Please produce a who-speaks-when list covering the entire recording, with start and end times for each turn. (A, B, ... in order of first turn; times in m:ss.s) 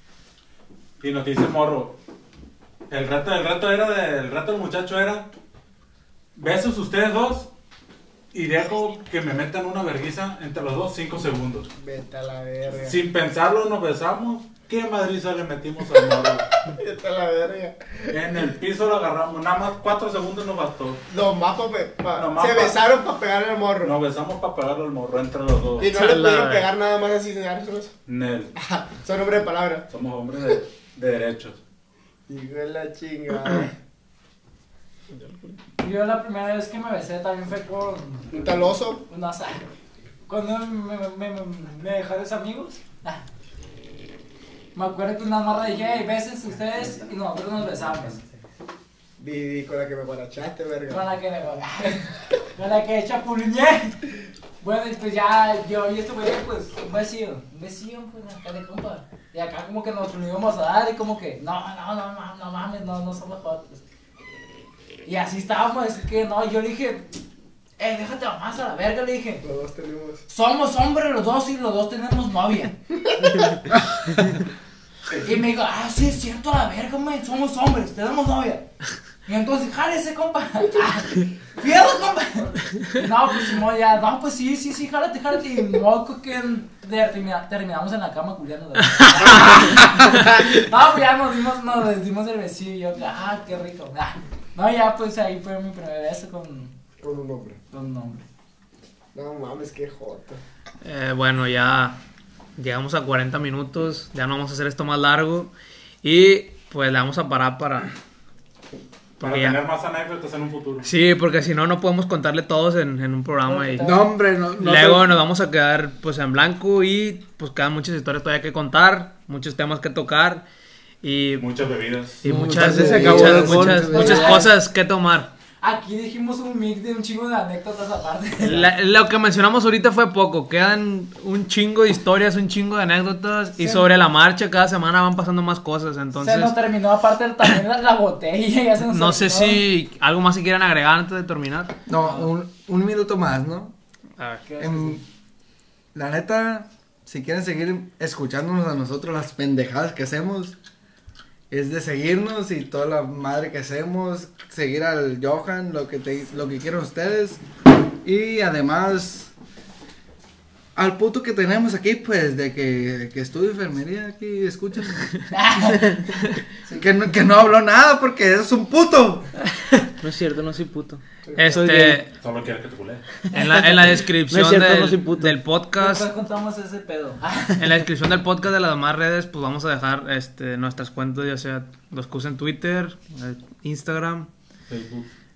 0:01.0-0:02.0 A
0:02.9-0:05.3 A
0:06.4-0:07.5 A
0:08.3-0:11.7 A
0:11.8-0:13.0 B
0:12.8-0:16.5 A
0:16.7-0:18.2 B
0:18.1-0:21.0 A
0:21.1-0:24.0 B
0:22.2-0:22.8 A
0:23.8-0:25.9 A
0:25.8-0:27.9 B
0:25.9-0:26.7 C
0:28.1-0:28.5 A
0:28.6-0:29.9 B
0:29.9-0:31.6 A
0:32.3-0:33.7 B
0:35.8-0:38.6 D
0:38.3-0:39.0 B
0:39.1-0:39.6 D
0:40.3-0:43.2 D
0:44.8-0:48.2 D
0:49.2-0:51.1 B
0:50.9-0:54.0 D
0:54.6-1:03.8 D
1:05.1-1:07.1 D
1:07.8-1:09.4 D
1:09.4-1:10.2 B
1:10.3-1:12.8 D
1:13.1-1:13.4 B
1:15.2-1:18.6 D
1:19.3-1:36.7 D
1:29.0-1:29.5 C
1:37.0-1:37.6 B
1:37.7-1:38.2 D
1:39.2-1:40.4 B
1:40.8-1:42.0 C
1:42.6-1:45.5 C
1:46.0-1:47.9 C
1:49.2-1:49.6 C
1:49.2-1:50.9 A
1:50.8-1:54.0 C
1:53.5-1:54.0 D
1:53.8-1:55.2 E
1:54.6-2:00.5 C
2:01.0-2:01.5 C
2:01.4-2:02.2 A
2:02.2-2:05.3 C
2:02.2-2:04.4 E
2:02.5-2:04.0 F
2:03.8-2:04.6 D
2:05.6-2:08.7 D
2:08.4-2:16.6 C
2:13.6-2:13.9 D
2:16.1-2:19.6 D
2:18.8-2:21.8 C
2:21.9-2:23.7 E
2:22.0-2:22.3 D
2:24.2-2:24.4 C
2:24.5-2:25.0 D
2:24.6-2:25.0 E
2:25.9-2:30.6 E
2:31.5-2:37.4 E
2:38.0-2:39.3 E
2:40.8-2:45.1 E
2:45.3-2:46.1 D
2:46.8-2:49.3 E
2:50.0-2:52.0 F
2:51.4-2:52.1 C
2:52.2-2:53.0 A
2:53.3-2:56.1 C
2:54.3-2:55.4 F
2:55.8-2:57.7 D
2:57.6-3:04.3 C
3:04.7-3:05.1 A